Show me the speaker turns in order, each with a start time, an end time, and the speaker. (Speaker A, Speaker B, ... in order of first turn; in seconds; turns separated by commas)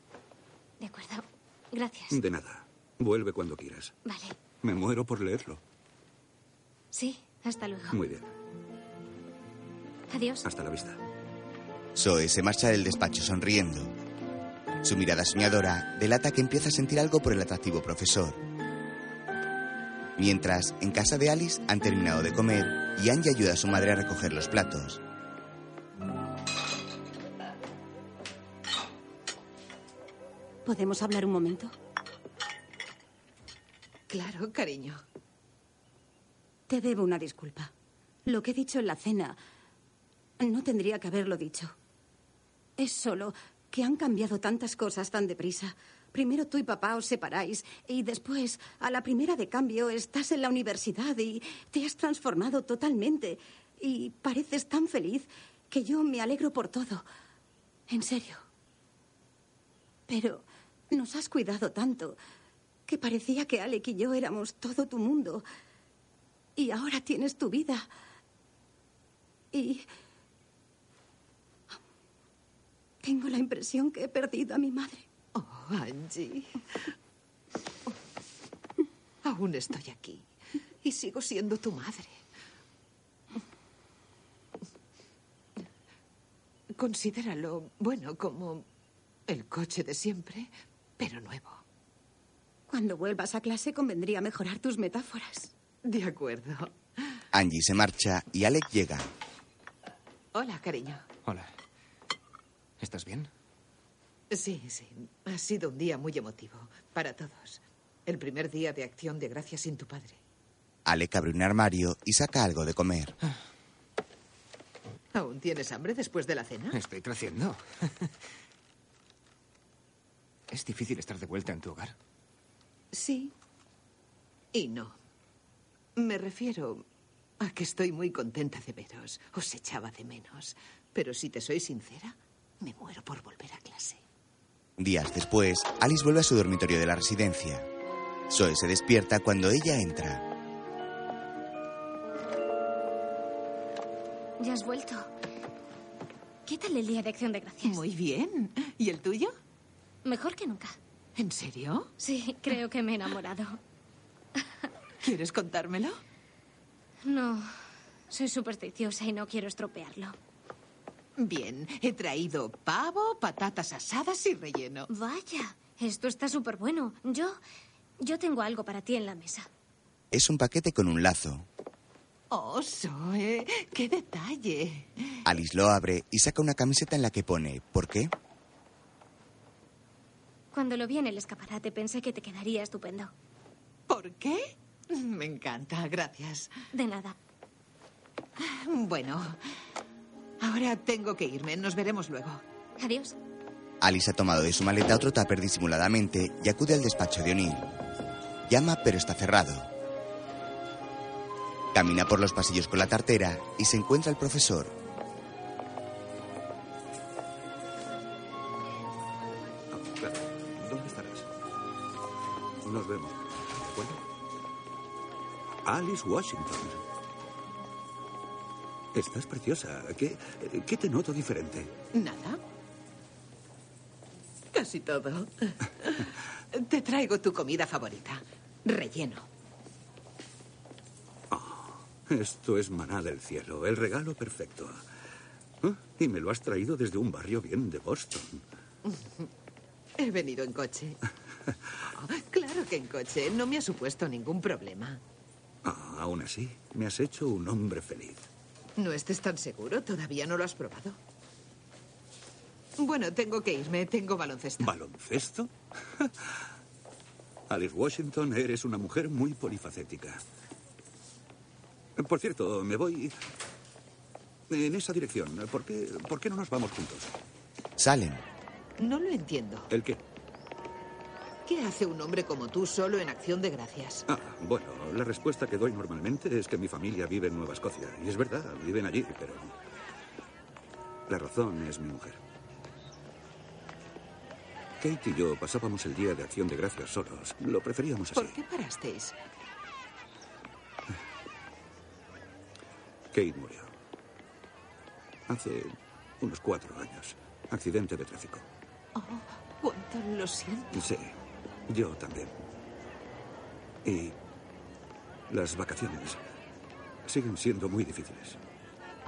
Speaker A: 0.8-2.2, Speaker B: 2.1-3.9, Speaker A: 4.0-4.4, Speaker B: 4.6-5.6, Speaker A: 6.9-8.0, Speaker B: 7.9-8.3, Speaker A: 10.1-10.4, Speaker B: 10.4-11.0, Speaker C: 11.9-13.9, Speaker C: 14.8-18.4, Speaker C: 20.2-25.0, Speaker D: 30.6-31.7, Speaker E: 34.1-35.0, Speaker D: 36.7-37.7, Speaker D: 38.2-39.4, Speaker D: 40.4-41.7, Speaker D: 42.8-57.0, Speaker D: 57.9-58.4, Speaker D: 60.1-62.2, Speaker D: 62.9-65.5, Speaker D: 66.6-67.9, Speaker D: 69.5-69.9, Speaker D: 73.0-75.0, Speaker E: 75.3-76.6, Speaker E: 79.2-80.3, Speaker E: 80.8-82.2, Speaker E: 86.8-88.7, Speaker E: 89.3-91.6, Speaker D: 92.7-95.5, Speaker E: 95.8-96.7, Speaker C: 97.3-99.1, Speaker E: 100.3-101.0, Speaker F: 101.2-101.5, Speaker F: 102.8-103.3, Speaker E: 104.3-110.2, Speaker C: 110.8-113.2, Speaker E: 115.1-116.8, Speaker F: 116.7-118.1, Speaker F: 120.5-122.0, Speaker E: 122.9-123.3, Speaker E: 124.5-125.0, Speaker E: 126.0-126.8, Speaker E: 127.4-134.0, Speaker C: 134.8-137.7, Speaker C: 138.3-140.3, Speaker A: 144.4-145.1, Speaker A: 146.4-147.8, Speaker E: 147.6-149.3, Speaker A: 150.0-150.8, Speaker E: 151.2-151.9, Speaker A: 152.0-153.6, Speaker E: 155.0-156.0, Speaker A: 157.0-157.5, Speaker A: 158.1-160.2, Speaker E: 161.2-164.9, Speaker A: 164.9-167.4, Speaker A: 168.0-169.5, Speaker C: 170.1-171.4, Speaker E: 172.3-175.2, Speaker C: 175.2-178.1, Speaker A: 180.5-183.1, Speaker E: 183.9-186.5, Speaker A: 186.7-187.2, Speaker E: 188.4-189.4, Speaker E: 190.4-192.4, Speaker A: 192.8-193.2, Speaker C: 193.8-197.7, Speaker C: 198.5-199.7, Speaker C: 201.7-204.7, Speaker B: 209.7-211.3, Speaker B: 212.6-214.0, Speaker B: 215.6-216.8, Speaker B: 218.9-221.7, Speaker E: 221.9-222.4, Speaker E: 224.5-229.3, Speaker B: 231.3-234.8, Speaker B: 235.6-238.4, Speaker E: 238.8-239.3, Speaker E: 240.0-241.0, Speaker E: 241.8-245.0, Speaker B: 245.6-248.2, Speaker E: 248.8-251.0, Speaker E: 252.8-254.7, Speaker B: 254.6-256.2, Speaker B: 257.5-260.2, Speaker B: 262.0-263.1, Speaker B: 264.5-267.1, Speaker C: 267.8-268.2, Speaker E: 268.8-269.7, Speaker B: 269.7-270.0, Speaker E: 271.4-274.0, Speaker B: 274.1-279.5, Speaker B: 281.1-282.2, Speaker B: 284.8-288.4, Speaker E: 288.1-289.1, Speaker B: 293.1-293.7, Speaker B: 295.3-298.4, Speaker E: 298.9-300.8, Speaker B: 300.7-301.1, Speaker B: 301.7-302.3, Speaker B: 303.8-304.2, Speaker B: 305.3-306.2, Speaker B: 307.0-308.4